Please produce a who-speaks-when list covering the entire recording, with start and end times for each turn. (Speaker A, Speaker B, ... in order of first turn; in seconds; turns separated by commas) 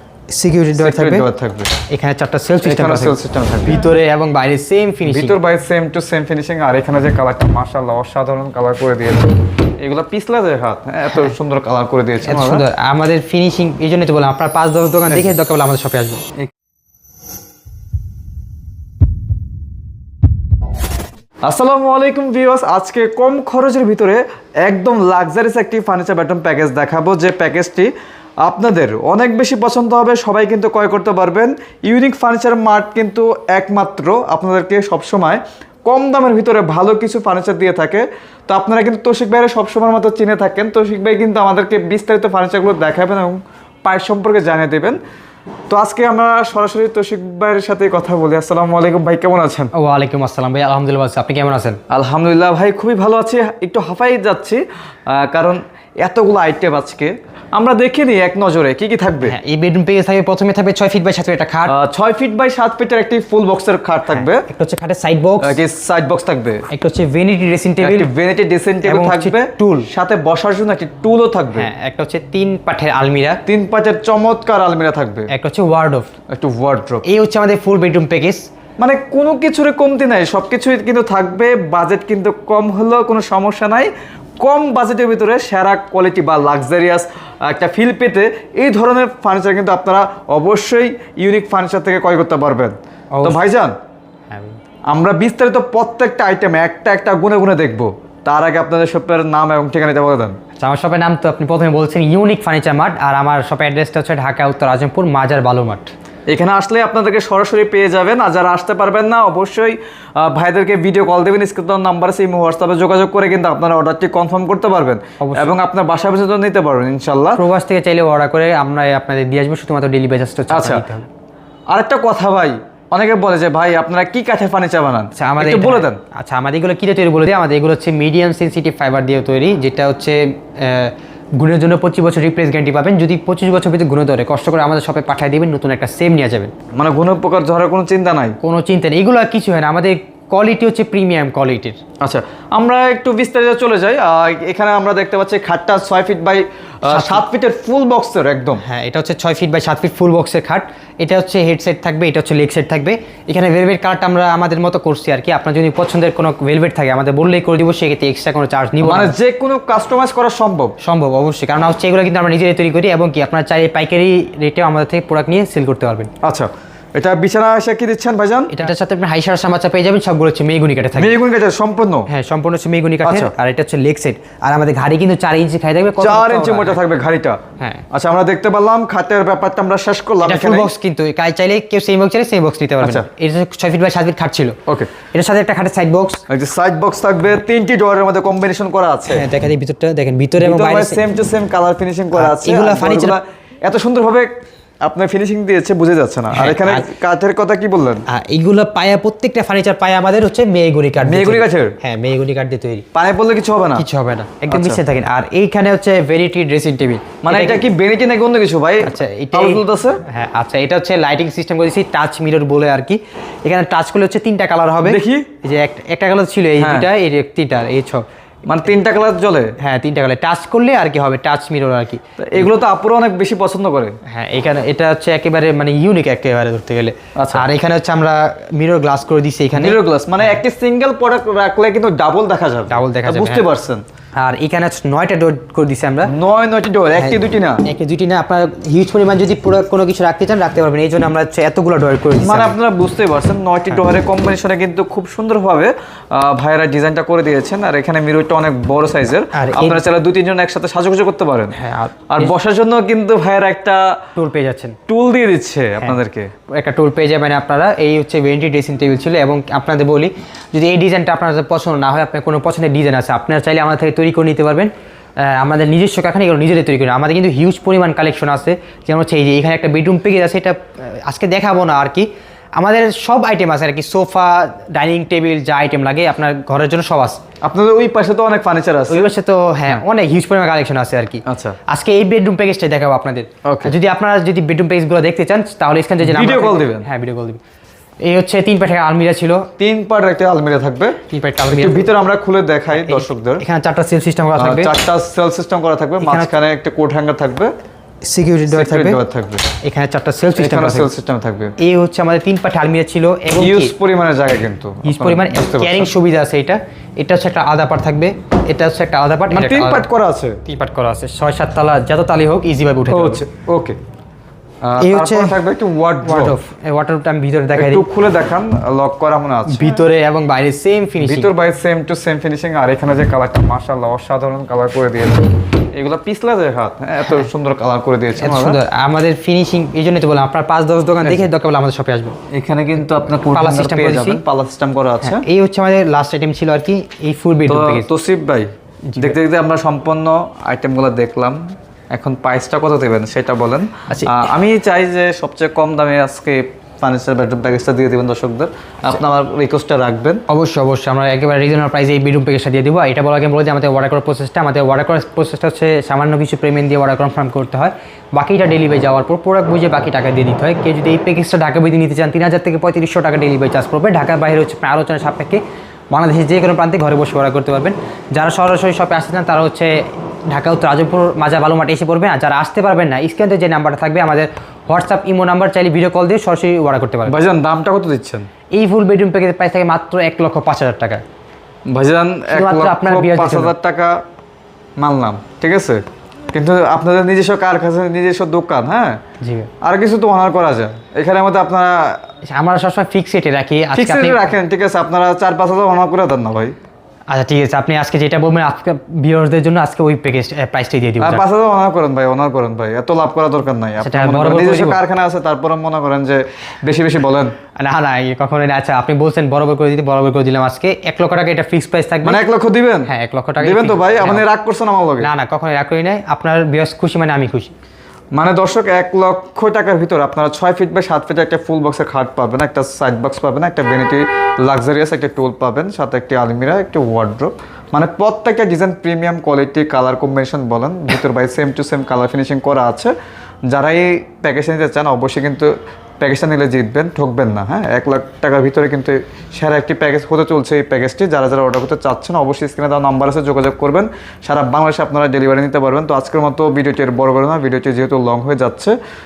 Speaker A: 0.3-1.2, Speaker B: 0.8-1.7, Speaker A: 1.9-3.1, Speaker B: 2.6-3.9, Speaker A: 3.7-5.3, Speaker B: 5.0-12.6, Speaker A: 12.2-16.2, Speaker B: 15.1-15.3, Speaker B: 21.4-27.9, Speaker B: 28.4-45.0, Speaker B: 45.7-49.7, Speaker A: 49.7-51.8, Speaker B: 51.9-59.4, Speaker A: 59.2-61.7, Speaker B: 61.7-64.4, Speaker A: 64.1-65.6, Speaker B: 65.4-66.7, Speaker A: 66.7-68.1, Speaker B: 67.8-71.7, Speaker A: 68.8-69.9, Speaker A: 71.5-73.4, Speaker B: 73.5-75.3, Speaker A: 75.3-76.1, Speaker B: 76.3-77.0, Speaker A: 77.0-78.5, Speaker B: 78.8-83.9, Speaker B: 84.4-93.7, Speaker A: 93.1-93.4, Speaker A: 94.3-94.6, Speaker B: 94.9-100.3, Speaker A: 100.6-105.9, Speaker B: 106.3-117.4, Speaker A: 115.2-115.5, Speaker A: 117.3-121.0, Speaker B: 120.5-120.8, Speaker B: 121.7-126.0, Speaker A: 125.2-136.5, Speaker B: 136.7-138.4, Speaker A: 138.4-141.8, Speaker B: 142.0-148.6, Speaker A: 146.9-147.2, Speaker A: 148.6-159.1, Speaker B: 158.8-160.7, Speaker A: 160.8-166.1, Speaker B: 166.2-168.5, Speaker A: 168.5-171.2, Speaker B: 170.9-172.1, Speaker A: 172.1-176.8, Speaker B: 173.0-173.3, Speaker B: 176.0-177.4, Speaker A: 177.6-177.8, Speaker B: 177.9-180.7, Speaker A: 180.2-184.6, Speaker B: 182.8-183.1, Speaker A: 185.1-186.2, Speaker B: 186.3-189.2, Speaker A: 189.1-191.0, Speaker B: 190.4-194.3, Speaker A: 192.1-193.2, Speaker B: 194.8-198.0, Speaker A: 196.3-196.8, Speaker A: 198.1-202.8, Speaker B: 201.0-201.8, Speaker B: 202.9-203.8, Speaker A: 203.8-207.6, Speaker B: 204.5-204.8, Speaker B: 207.2-210.0, Speaker A: 208.8-218.0, Speaker B: 214.8-215.3, Speaker B: 216.6-216.9, Speaker B: 218.4-219.5, Speaker A: 219.6-222.4, Speaker B: 222.2-223.9, Speaker A: 224.0-229.8, Speaker B: 227.2-227.4, Speaker B: 229.5-233.8, Speaker A: 232.7-233.4, Speaker A: 234.2-236.1, Speaker B: 236.1-237.6, Speaker A: 237.0-242.5, Speaker B: 242.2-251.5, Speaker A: 249.3-249.8, Speaker A: 251.5-252.3, Speaker B: 252.1-254.0, Speaker A: 254.2-254.8, Speaker B: 254.9-256.3, Speaker A: 256.5-277.2, Speaker B: 277.4-279.1, Speaker A: 278.9-287.4, Speaker B: 281.2-281.6, Speaker B: 283.4-283.8, Speaker B: 286.0-286.9, Speaker A: 288.0-289.5, Speaker B: 289.6-293.4, Speaker A: 291.1-291.9, Speaker A: 292.7-294.7, Speaker B: 294.4-297.5, Speaker A: 296.0-296.3, Speaker A: 298.0-299.0, Speaker B: 298.5-299.4, Speaker A: 299.6-300.9, Speaker B: 300.4-301.5, Speaker A: 301.6-303.7, Speaker B: 303.4-305.9, Speaker A: 304.8-309.9, Speaker B: 309.3-310.4, Speaker A: 310.5-313.2, Speaker B: 312.9-313.8, Speaker B: 314.6-316.4, Speaker A: 314.8-315.3, Speaker A: 316.0-317.8, Speaker B: 317.6-319.8, Speaker A: 319.5-321.3, Speaker B: 321.0-328.6, Speaker A: 328.2-332.2, Speaker B: 331.0-331.3, Speaker B: 332.3-335.2, Speaker A: 333.3-334.2, Speaker A: 335.0-337.9, Speaker B: 337.5-341.4, Speaker A: 338.9-339.2, Speaker B: 341.9-350.2, Speaker A: 343.9-344.2, Speaker A: 350.3-365.4, Speaker A: 365.9-377.1, Speaker B: 377.1-378.3, Speaker A: 378.5-381.0, Speaker B: 381.7-384.0, Speaker A: 382.3-383.5, Speaker B: 384.8-389.0, Speaker A: 389.2-389.5, Speaker B: 389.6-392.0, Speaker A: 392.3-394.3, Speaker B: 393.7-396.5, Speaker A: 397.1-401.2, Speaker B: 401.0-407.3, Speaker A: 403.8-404.8, Speaker A: 407.6-412.2, Speaker B: 412.0-415.1, Speaker A: 412.9-414.2, Speaker A: 415.0-417.5, Speaker B: 418.1-432.9, Speaker B: 433.5-448.8